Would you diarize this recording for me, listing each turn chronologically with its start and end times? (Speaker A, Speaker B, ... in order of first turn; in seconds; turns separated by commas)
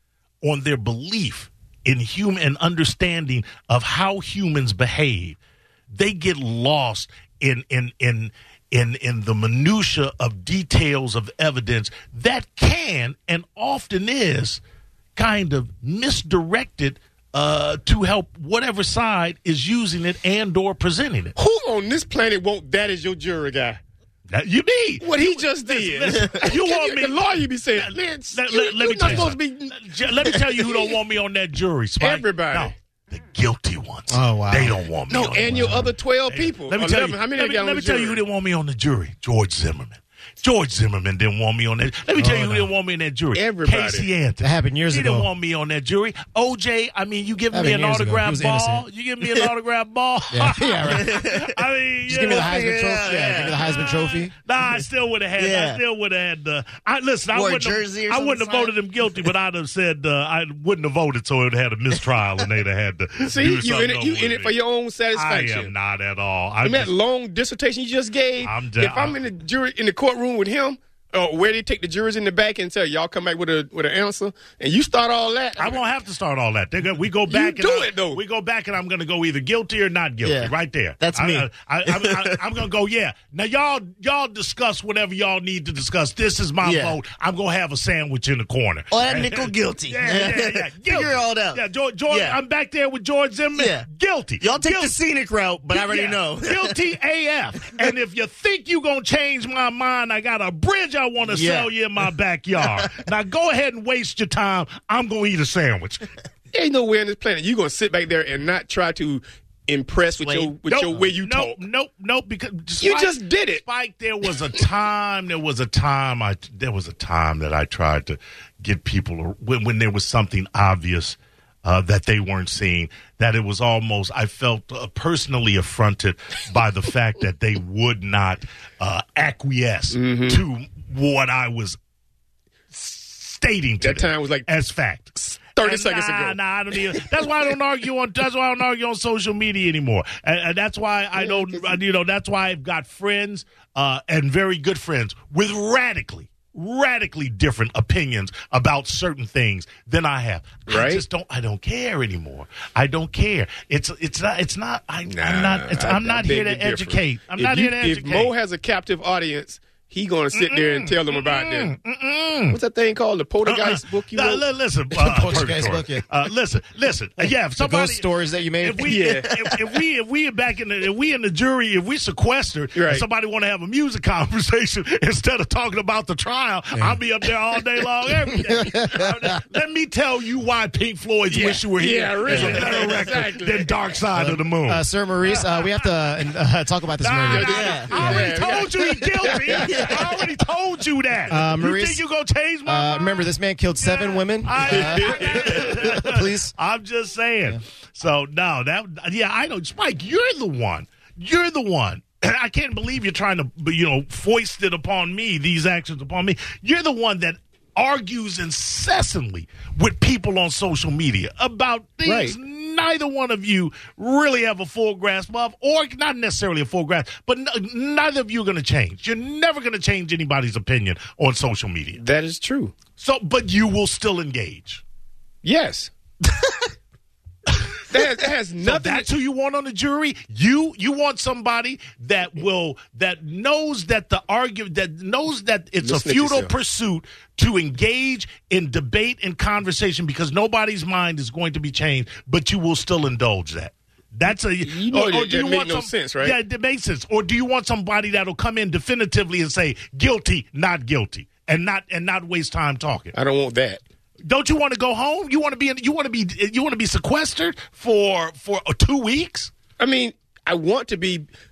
Speaker A: 0.4-5.4, Speaker A: 5.9-14.6, Speaker A: 15.2-21.4, Speaker B: 21.4-23.8, Speaker A: 24.3-64.5, Speaker B: 25.0-30.8, Speaker B: 32.0-32.7, Speaker C: 34.1-34.8, Speaker B: 35.1-38.2, Speaker C: 35.5-35.9, Speaker C: 42.2-42.7, Speaker B: 43.3-44.1, Speaker C: 44.4-45.3, Speaker C: 47.5-48.9, Speaker C: 50.3-51.1, Speaker D: 50.9-51.5, Speaker C: 52.1-54.3, Speaker D: 52.2-54.0, Speaker D: 55.4-55.8, Speaker D: 57.3-58.7, Speaker B: 63.2-65.7, Speaker A: 65.1-66.9, Speaker B: 66.6-75.8, Speaker A: 68.4-69.2, Speaker A: 75.6-95.0, Speaker B: 77.3-78.2, Speaker D: 80.2-82.4, Speaker D: 86.6-87.0, Speaker D: 88.9-92.4, Speaker D: 93.5-93.9, Speaker D: 94.4-96.7, Speaker A: 95.7-106.1, Speaker D: 101.3-101.7, Speaker B: 106.5-111.6, Speaker D: 110.2-110.5, Speaker A: 110.7-131.8, Speaker B: 112.8-113.6, Speaker B: 129.9-130.4, Speaker A: 132.7-158.3, Speaker B: 133.8-134.5, Speaker B: 135.2-136.4, Speaker B: 141.2-141.7, Speaker B: 150.7-151.0, Speaker B: 155.1-161.8, Speaker A: 160.3-162.6, Speaker B: 162.5-164.5, Speaker A: 163.4-185.9, Speaker C: 165.0-166.1, Speaker C: 167.6-169.1, Speaker B: 168.8-169.5, Speaker B: 172.7-173.0, Speaker C: 178.5-179.0, Speaker B: 181.3-183.7, Speaker C: 184.2-188.3, Speaker A: 187.0-222.0, Speaker B: 187.3-190.0, Speaker D: 187.4-188.3, Speaker D: 189.7-190.0, Speaker C: 191.3-192.0, Speaker C: 192.7-196.5, Speaker B: 194.7-195.7, Speaker B: 212.1-212.4, Speaker B: 222.0-222.8, Speaker A: 223.0-224.8, Speaker B: 225.4-225.9, Speaker A: 227.5-228.1, Speaker B: 227.9-229.1, Speaker A: 228.6-253.2, Speaker B: 235.8-236.5, Speaker B: 244.6-246.4, Speaker B: 253.1-253.8, Speaker A: 254.2-259.5, Speaker B: 259.8-261.3